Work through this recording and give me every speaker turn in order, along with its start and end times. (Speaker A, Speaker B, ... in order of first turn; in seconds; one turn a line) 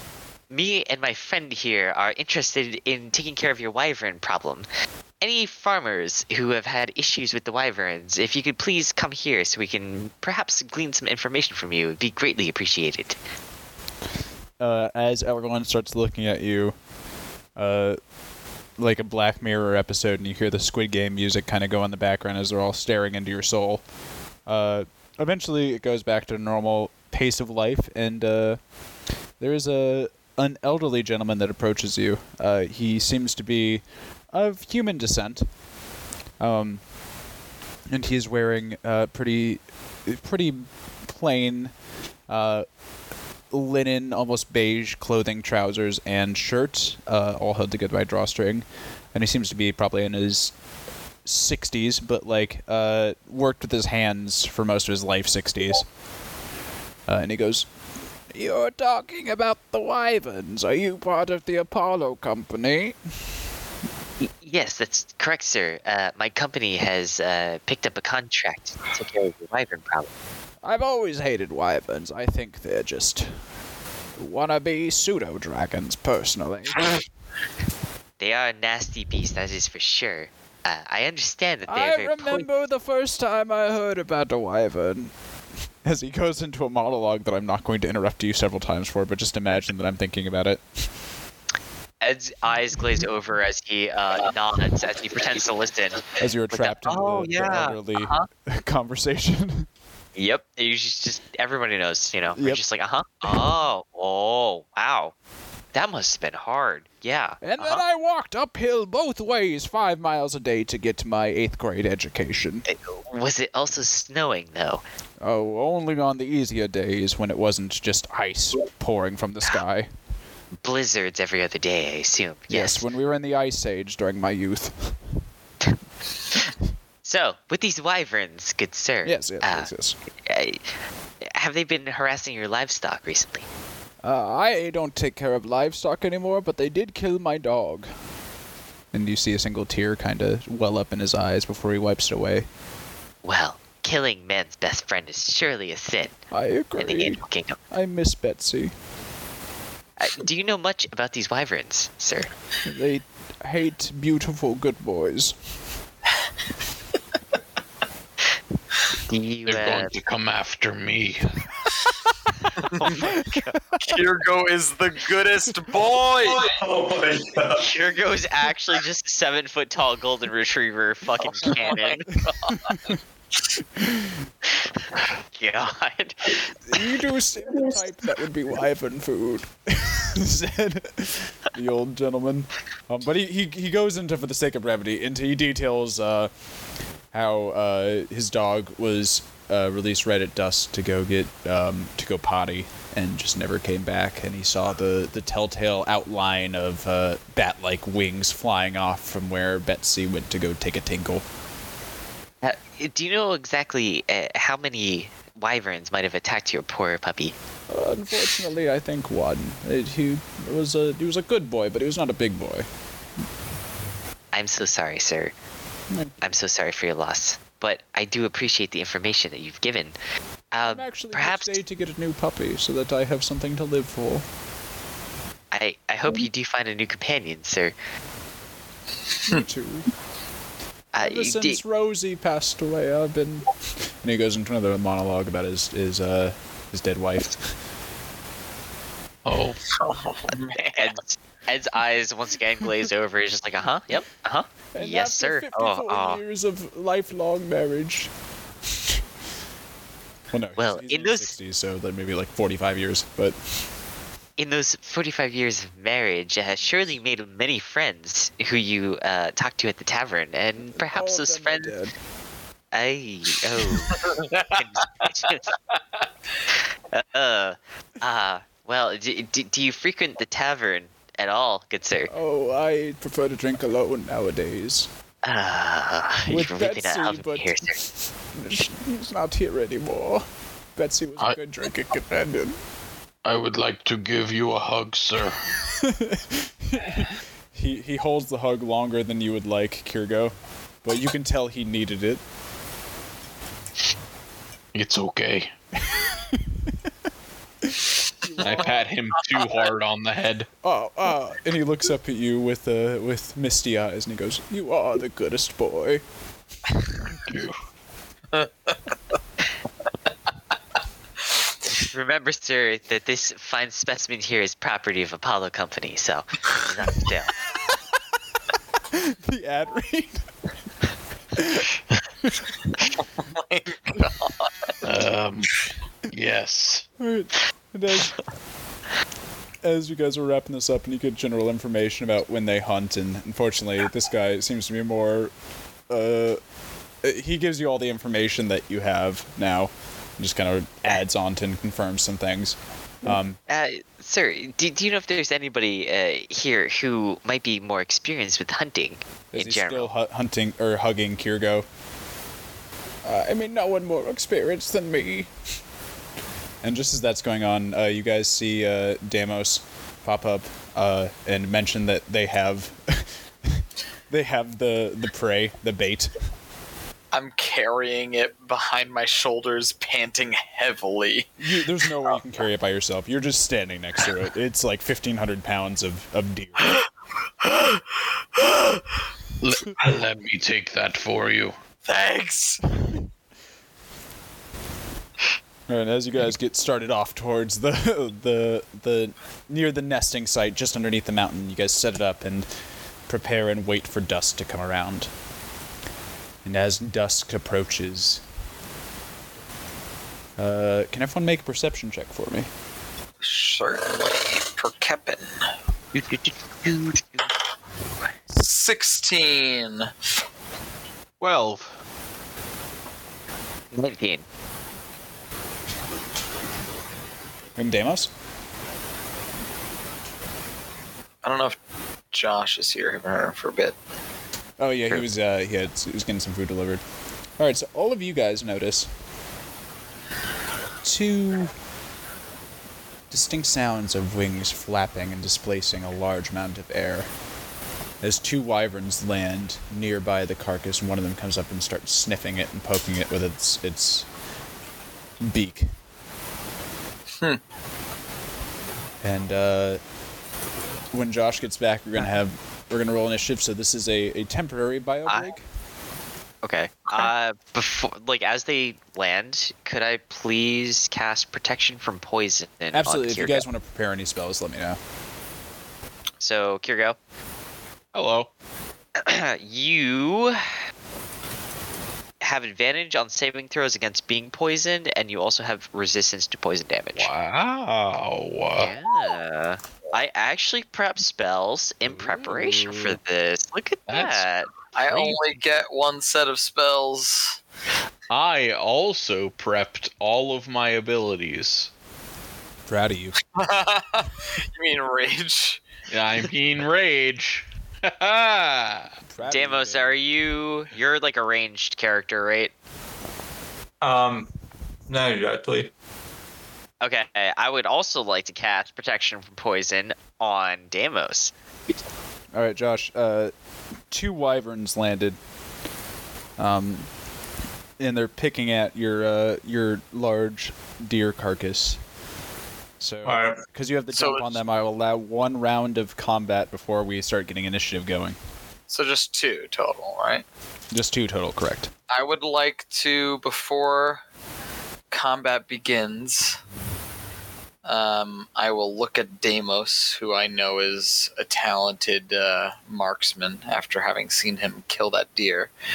Speaker A: 0.5-4.7
Speaker A: 5.2-13.2
Speaker B: 14.6-16.8
Speaker B: 17.5-18.0
Speaker B: 18.8-23.9
Speaker B: 24.4-28.6
Speaker B: 29.4-35.5
Speaker B: 36.4-36.9
Speaker B: 37.9-41.7
Speaker B: 42.3-42.6
Speaker B: 43.5-50.5
Speaker B: 51.2-55.9
Speaker B: 57.1-57.7
Speaker B: 58.3-63.0
Speaker A: 64.2-70.1
Speaker B: 70.6-73.3
Speaker B: 74.2-76.9
Speaker A: 78.2-82.5
Speaker B: 81.7-85.1
Speaker B: 85.8-90.6
Speaker A: 92.0-98.2
Speaker B: 96.2-99.7
Speaker A: 100.2-105.1
Speaker B: 102.3-102.6
Speaker B: 103.2-103.5
Speaker A: 105.7-107.8
Speaker B: 107.4-112.6
Speaker A: 112.7-114.8
Speaker B: 115.2-119.9
Speaker A: 120.6-122.9
Speaker B: 122.5-125.0
Speaker A: 127.0-129.7
Speaker B: 129.0-129.9
Speaker A: 130.2-130.7
Speaker A: 131.2-133.4
Speaker B: 134.0-137.9
Speaker B: 138.9-142.5
Speaker A: 143.2-146.2
Speaker B: 146.3-148.7
Speaker A: 146.8-147.6
Speaker A: 150.0-152.3
Speaker B: 152.6-155.3
Speaker A: 159.1-159.9
Speaker C: 159.4-161.4
Speaker A: 162.8-163.5
Speaker B: 162.8-163.8
Speaker D: 163.8-166.4
Speaker E: 166.2-167.7
Speaker A: 167.6-172.1
Speaker D: 171.2-172.7
Speaker B: 172.7-173.0
Speaker B: 173.8-174.2
Speaker A: 174.8-176.8
Speaker B: 176.6-186.3
Speaker B: 187.1-201.2
Speaker A: 202.4-207.3
Speaker B: 207.7-212.7
Speaker A: 214.3-215.3
Speaker A: 216.2-219.9
Speaker A: 220.5-221.6
Speaker B: 220.7-224.2
Speaker A: 225.5-227.7
Speaker B: 229.3-229.9
Speaker A: 230.9-231.6
Speaker B: 231.0-233.5
Speaker B: 234.0-237.5
Speaker C: 239.2-239.6
Speaker D: 239.7-241.0
Speaker A: 240.6-246.2
Speaker B: 244.7-248.1
Speaker B: 250.3-253.4
Speaker A: 250.6-251.3
Speaker A: 254.4-261.7
Speaker B: 260.6-261.9
Speaker A: 262.7-265.5
Speaker D: 263.9-264.6
Speaker A: 266.9-272.1
Speaker B: 272.1-274.9
Speaker A: 275.2-277.8
Speaker B: 276.3-277.7
Speaker B: 278.3-282.6
Speaker C: 283.2-285.4
Speaker B: 285.7-292.2
Speaker C: 294.7-295.5
Speaker B: 295.8-296.7
Speaker B: 297.6-298.8
Speaker C: 298.4-300.5
Speaker B: 300.6-306.0
Speaker C: 307.1-307.5
Speaker D: 308.3-308.8
Speaker A: 311.7-317.4
Speaker B: 318.9-320.2
Speaker B: 321.4-321.7
Speaker B: 322.2-322.5
Speaker D: 323.3-324.7
Speaker C: 324.8-325.5
Speaker C: 326.1-326.9
Speaker B: 327.0-328.1
Speaker B: 329.6-335.3
Speaker B: 335.9-336.4
Speaker B: 337.0-343.4
Speaker A: 343.5-349.9
Speaker B: 349.3-351.7
Speaker B: 353.0-355.3
Speaker B: 356.6-366.1
Speaker D: 367.1-371.4
Speaker B: 371.4-376.8
Speaker D: 377.4-378.8
Speaker C: 379.4-381.6
Speaker D: 381.8-382.6
Speaker B: 385.7-392.5
Speaker B: 393.1-395.1
Speaker B: 396.4-398.2
Speaker B: 400.4-402.5
Speaker D: 403.2-405.4
Speaker A: 405.9-407.3
Speaker D: 408.3-409.9
Speaker C: 411.2-411.7
Speaker A: 413.7-414.2
Speaker B: 417.6-418.1
Speaker D: 421.2-421.6
Speaker D: 422.1-423.8
Speaker B: 424.6-426.8
Speaker B: 427.4-428.9
Speaker B: 430.8-431.5
Speaker B: 433.1-437.1
Speaker B: 438.0-444.1
Speaker B: 445.2-445.7
Speaker B: 449.0-449.8
Speaker B: 450.9-455.4
Speaker A: 456.4-463.4
Speaker B: 462.7-464.8
Speaker A: 466.2-467.0
Speaker C: 467.9-468.3
Speaker A: 468.9-470.6
Speaker A: 472.2-477.1
Speaker C: 476.9-479.1
Speaker A: 478.6-484.5
Speaker C: 481.9-483.0
Speaker C: 483.9-485.2
Speaker D: 484.7-487.4
Speaker C: 488.1-491.7
Speaker B: 492.7-493.1
Speaker D: 493.3-495.6
Speaker C: 495.9-498.9
Speaker B: 499.1-500.0
Speaker A: 499.2-502.5
Speaker E: 503.8-504.3
Speaker E: 504.9-505.7
Speaker A: 506.8-511.3
Speaker B: 512.3-513.3
Speaker B: 513.9-515.2
Speaker B: 516.4-516.9
Speaker B: 517.8-521.8
Speaker B: 522.8-528.2
Speaker E: 523.0-523.4
Speaker D: 523.9-524.4
Speaker D: 528.7-530.2
Speaker B: 530.7-531.7
Speaker D: 531.9-534.0
Speaker D: 534.9-536.4
Speaker D: 537.6-545.5